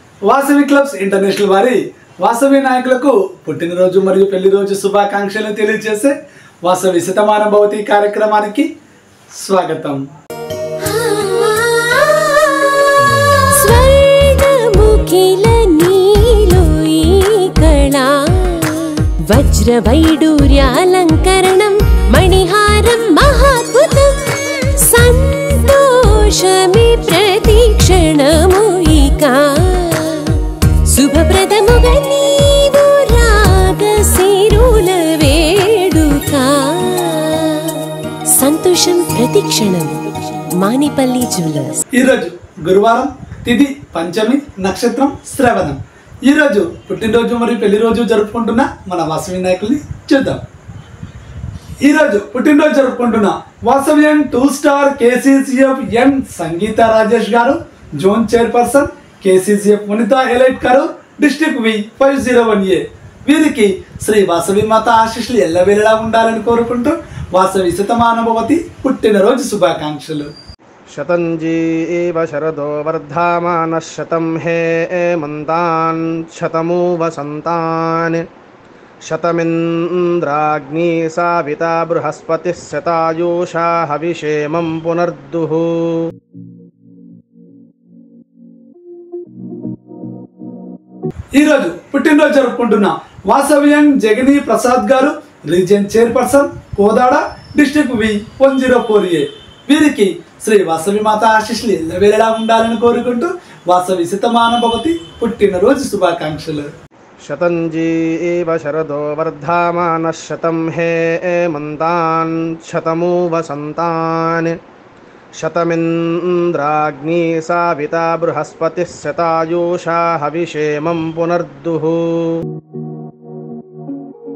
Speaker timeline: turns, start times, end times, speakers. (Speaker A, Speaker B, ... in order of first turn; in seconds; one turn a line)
Speaker A: 0.2-8.7
Speaker A: 9.4-10.0
Speaker B: 10.8-37.8
Speaker B: 38.4-41.8
Speaker A: 42.0-50.4
Speaker A: 51.8-70.3
Speaker C: 70.9-78.2
Speaker C: 79.1-86.0
Speaker A: 91.3-106.7
Speaker C: 107.2-114.5
Speaker C: 115.4-122.4